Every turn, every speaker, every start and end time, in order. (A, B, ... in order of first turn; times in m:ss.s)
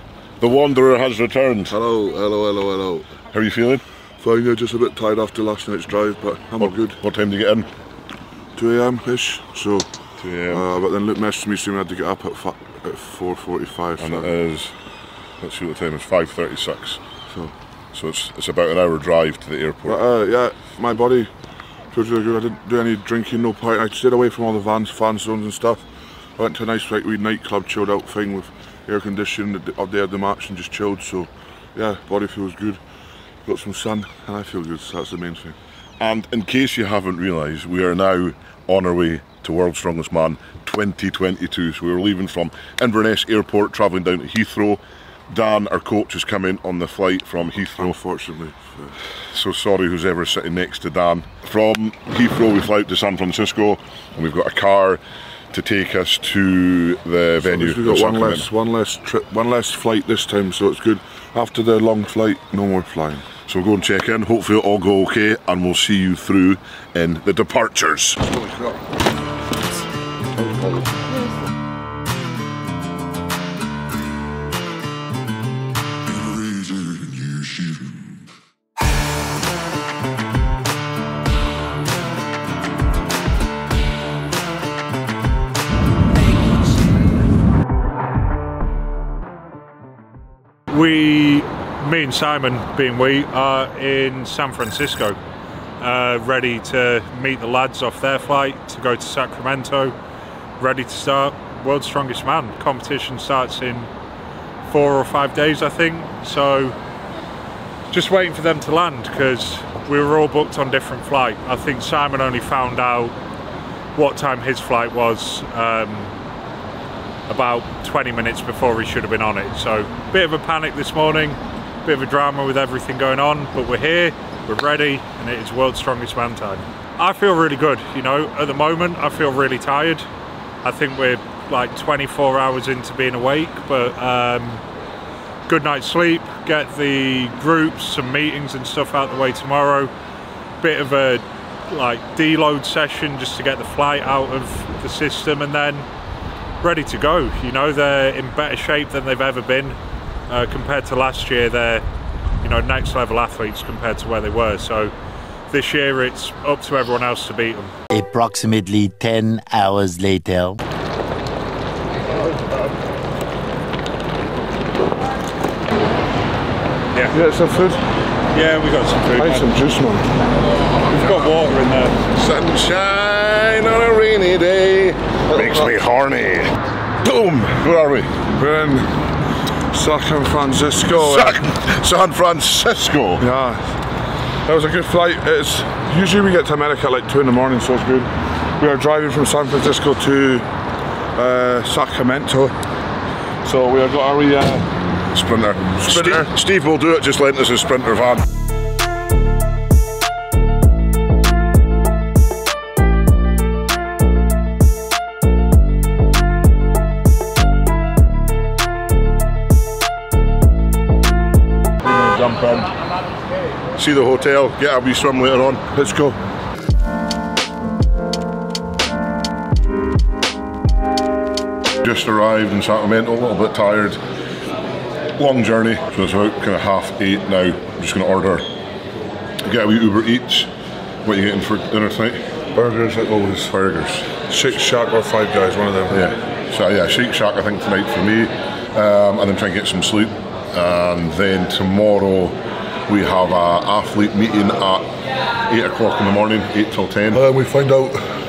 0:00.4-0:01.7 A
0:01.7-0:03.1 B
0:03.3-0:03.8 A
0:04.2-0:07.0 B
0:06.6-0:07.7 A
0:08.5-0:09.9 B
0:10.2-0:10.6 A
0:10.5-0:14.3 B
0:14.0-0:14.8 A
0:15.4-0:17.0 A
0:17.9-0:20.0 A
0:19.8-0:21.3 B
0:21.9-0:32.8 B
0:33.4-0:35.6 B
0:36.0-0:48.0 A
0:47.8-0:48.9 B
0:49.3-0:58.5 A
0:57.4-1:03.2 B
1:03.5-1:08.2 A
1:08.3-1:08.7 B
1:10.4-1:11.0 B
1:30.7-1:35.2 C
1:35.8-1:39.9 C
1:40.6-1:43.9 C
1:44.7-1:46.8 C
1:47.9-1:53.1 C
1:54.0-1:56.1 C
1:57.3-2:10.0 C
2:10.6-2:14.6 C
2:15.5-2:19.9 C
2:20.6-2:25.9 C
2:26.6-2:29.8 C
2:30.3-2:31.8 C
2:32.4-2:34.9 C
2:35.5-2:37.7 C
2:37.9-2:40.6 D
2:47.1-2:47.8 B
2:48.3-2:49.5 C
2:49.2-2:50.1 B
2:50.6-2:51.3 A
2:50.9-2:51.9 C
2:52.1-2:56.5 A
2:57.0-2:58.1 A
2:58.4-2:58.9 B
2:59.7-3:01.4 B
3:01.0-3:03.2 A
3:03.2-3:03.8 B
3:04.5-3:10.5 B
3:11.2-3:12.6 B
3:13.4-3:14.7 B
3:15.1-3:18.2 A
3:15.8-3:16.3 B
3:31.8-3:32.7 A
3:33.7-3:35.6 A
3:35.7-3:36.2 B
3:41.8-3:44.0 A
3:45.2-3:48.5 A
3:49.4-3:50.5 A
3:51.0-3:52.2 A
3:52.6-3:53.5 B
3:53.5-3:54.1 A
3:54.3-3:56.1 B
3:55.9-4:07.2 A
4:07.1-4:08.1 B